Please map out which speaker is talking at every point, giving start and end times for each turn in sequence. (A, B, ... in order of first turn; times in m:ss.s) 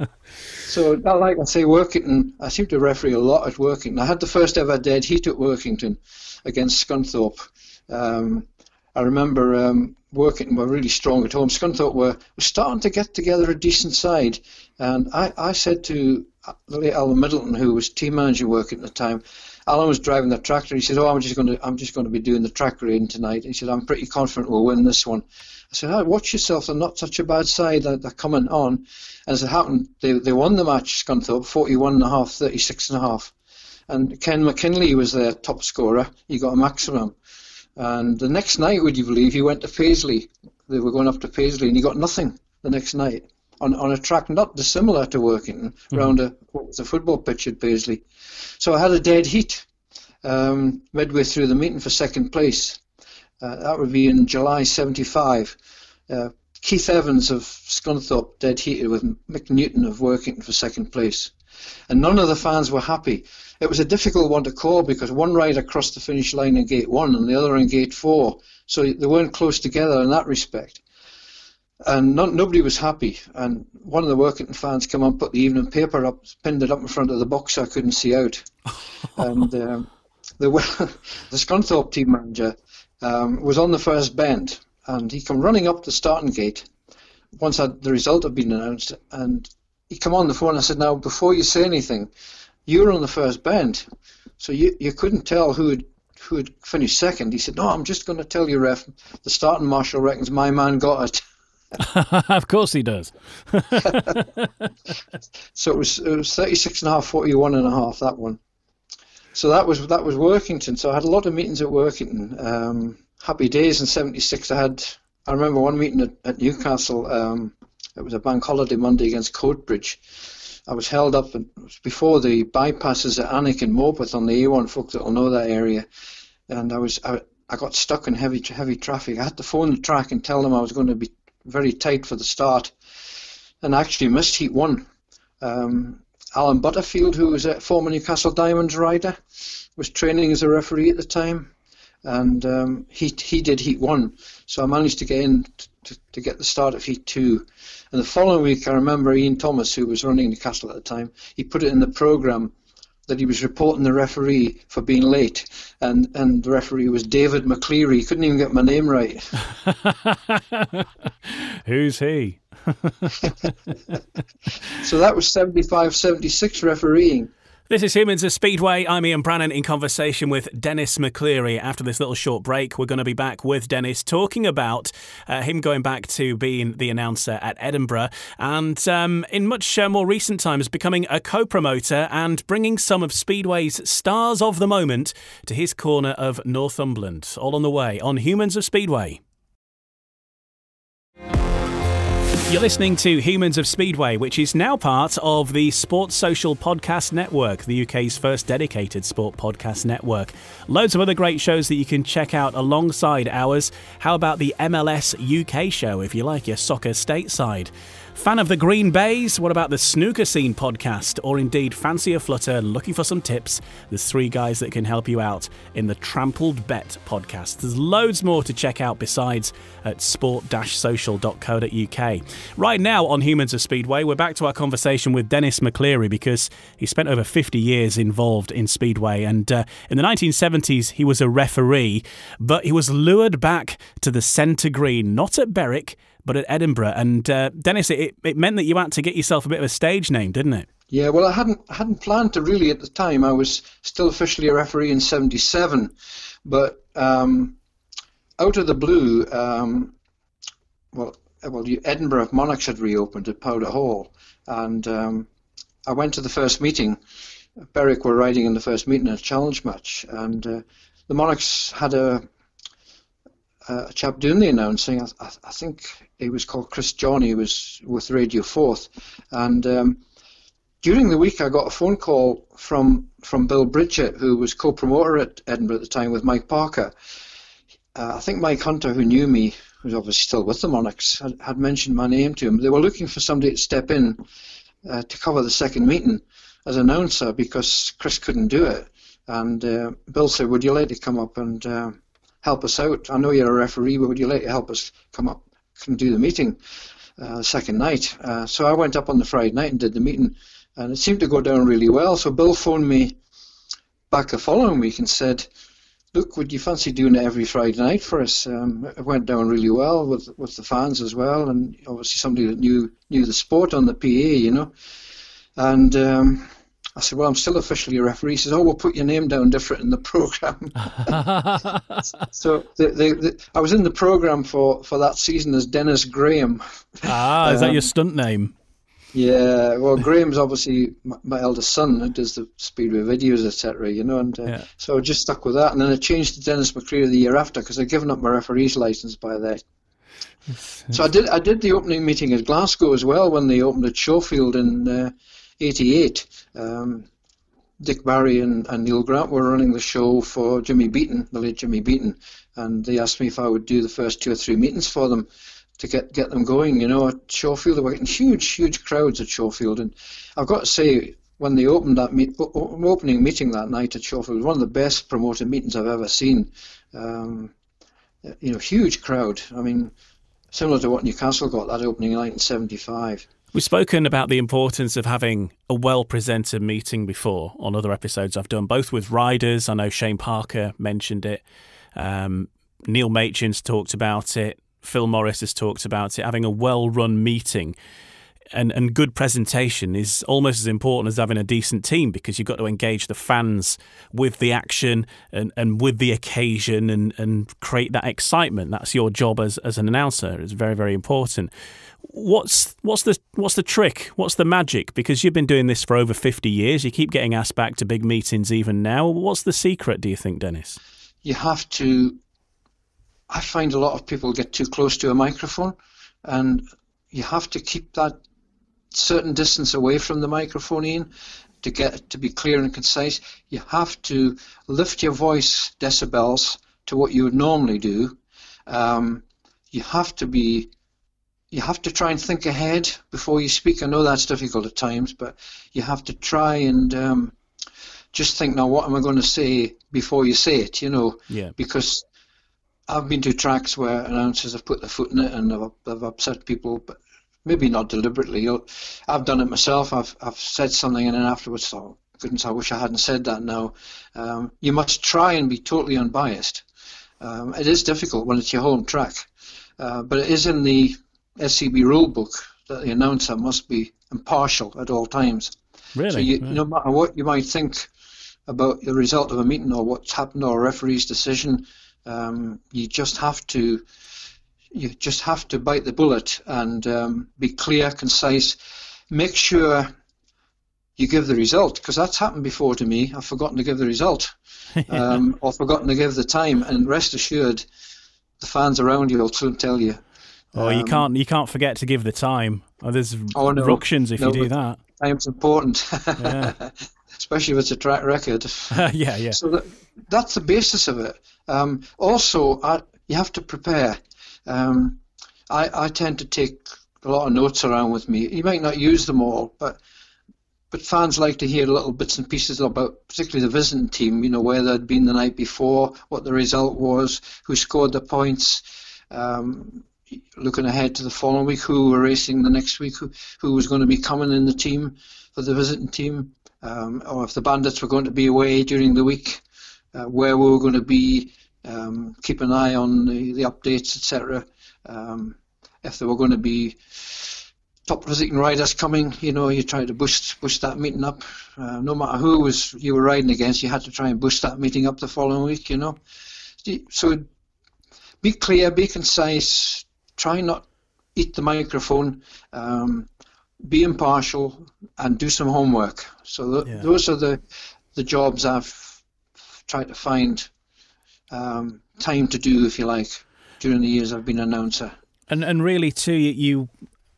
0:00.6-0:33.3 A
0:33.9-0:37.1 A
0:37.8-0:49.6 A
0:50.2-0:52.8 A
0:53.4-0:55.6 A
0:56.1-1:01.3 A
1:01.9-1:10.8 A
1:11.8-1:18.5 A
1:19.1-1:26.7 A
1:27.3-1:32.1 A
1:32.6-1:33.8 A
1:34.4-1:41.2 A
1:41.8-1:44.4 B
1:43.9-1:44.1 A
1:45.5-1:48.4 A
1:49.3-2:00.0 A
2:00.7-2:05.9 A
2:06.5-2:12.7 A
2:13.6-2:14.8 A
2:15.4-2:19.2 A
2:19.8-2:21.5 A
2:22.0-2:32.5 A
2:33.1-2:39.3 A
2:39.6-2:43.5 B
2:44.7-2:47.3 A
2:47.7-3:09.2 B
3:12.5-4:00.6 B
4:00.9-4:05.9 A
4:06.4-4:07.6 A
4:08.4-4:09.9 A
4:10.9-4:15.3 A
4:15.8-4:17.0 A
4:17.7-4:22.2 A
4:23.7-4:30.0 A
4:30.8-4:36.9 A
4:37.9-4:44.2 A
4:44.8-4:56.6 A
4:57.2-5:03.2 A
5:04.1-5:05.5 A
5:06.1-5:14.7 A
5:15.6-5:21.2 A
5:21.1-5:22.0 B
5:22.3-5:27.8 A
5:27.0-5:28.5 B
5:29.1-5:39.6 A
5:40.9-5:47.0 A
5:47.8-6:07.5 A
6:08.4-6:09.9 A
6:10.5-6:13.2 A
6:13.5-6:21.4 B
6:21.9-6:27.7 B
6:28.5-6:41.5 B
6:42.0-6:50.8 B
6:51.2-6:52.2 A
6:53.3-6:58.2 A
6:58.9-7:01.1 A
7:01.6-7:10.7 A
7:11.5-7:17.3 A
7:18.1-7:22.0 A
7:22.9-7:36.6 A
7:37.2-7:45.5 A
7:45.9-7:46.6 B
7:46.1-7:47.9 A
7:48.5-7:53.8 A
7:54.7-7:58.6 A
7:59.1-7:59.9 A
8:01.0-8:04.3 A
8:04.9-8:07.6 A
8:08.4-8:10.0 A
8:10.5-8:11.0 A
8:10.6-8:14.8 B
8:13.3-8:29.8 A
8:16.2-8:16.5 B
8:18.7-8:19.4 B
8:30.7-8:49.4 A
8:49.9-9:06.0 A
9:06.6-9:07.3 A
9:08.2-9:13.1 A
9:13.6-9:17.4 A
9:17.9-9:19.0 A
9:19.7-9:20.5 A
9:21.3-9:24.9 A
9:25.3-9:26.7 B